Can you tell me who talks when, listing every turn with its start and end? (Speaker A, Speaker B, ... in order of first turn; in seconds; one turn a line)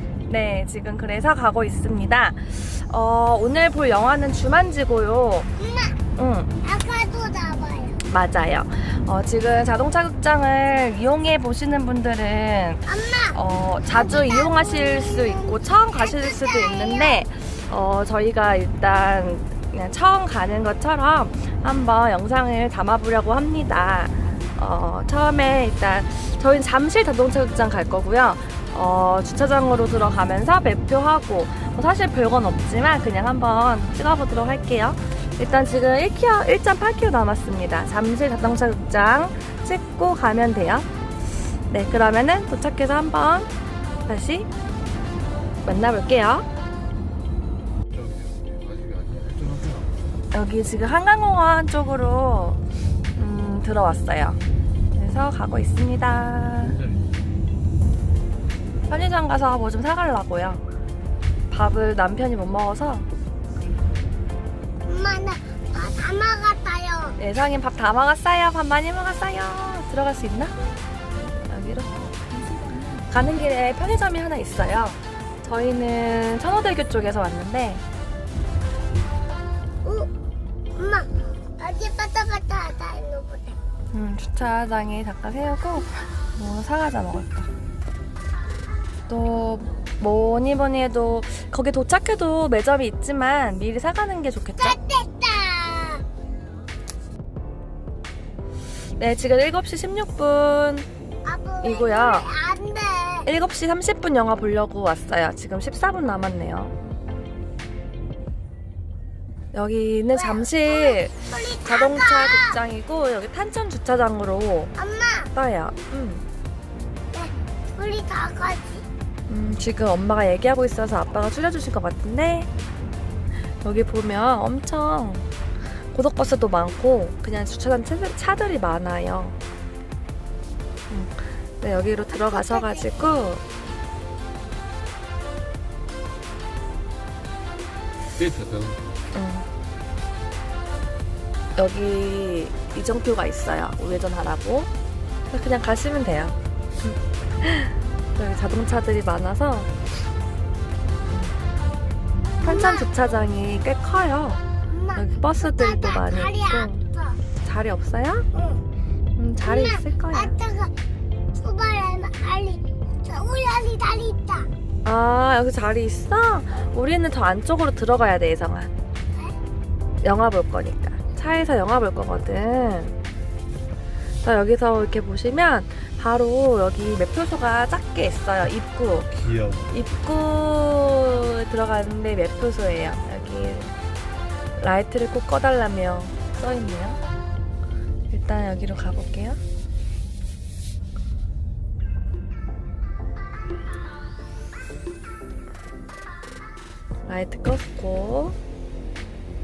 Speaker A: 0.3-5.5
Speaker B: 5.6-6.0
Speaker A: 6.2-6.5
Speaker B: 6.6-8.0
Speaker A: 8.1-40.9
Speaker B: 12.9-17.2
Speaker A: 41.7-43.5
Speaker A: 44.0-44.5
Speaker A: 45.6-46.5
Speaker C: 47.9-50.2
Speaker A: 50.3-52.6
Speaker A: 53.2-54.4
Speaker A: 55.0-56.8
Speaker C: 56.6-57.2
Speaker A: 58.9-60.6
Speaker A: 61.5-63.1
Speaker B: 64.8-67.2
Speaker A: 67.2-70.6
Speaker A: 71.5-72.0
Speaker A: 72.9-77.8
Speaker B: 79.8-80.1
Speaker B: 80.8-83.6
Speaker A: 83.9-87.5
Speaker A: 89.1-94.8
Speaker B: 94.6-96.0
Speaker A: 99.0-100.9
Speaker B: 101.2-103.3
Speaker A: 101.6-102.3
Speaker A: 103.2-106.7
Speaker A: 109.5-114.7
Speaker B: 110.1-112.6
Speaker B: 114.8-115.3
Speaker A: 115.3-116.2
Speaker B: 117.1-118.9
Speaker A: 119.3-122.5
Speaker A: 123.5-125.3
Speaker A: 125.8-129.4
Speaker A: 130.9-133.4
Speaker B: 132.1-132.8
Speaker C: 138.2-138.8
Speaker A: 139.1-139.5
Speaker A: 141.6-144.7
Speaker A: 145.3-149.7
Speaker A: 151.1-151.3
Speaker A: 152.4-154.4
Speaker B: 152.4-152.9
Speaker B: 154.7-157.2
Speaker A: 154.9-156.8
Speaker A: 157.4-158.3
Speaker B: 158.3-158.7
Speaker A: 159.2-160.3
Speaker B: 159.4-160.7
Speaker B: 161.3-164.5
Speaker A: 164.8-168.7
Speaker A: 170.0-173.0
Speaker A: 174.2-179.1
Speaker C: 179.1-179.9
Speaker A: 179.7-183.7
Speaker A: 184.6-187.0
Speaker A: 188.1-189.4
Speaker A: 197.1-198.4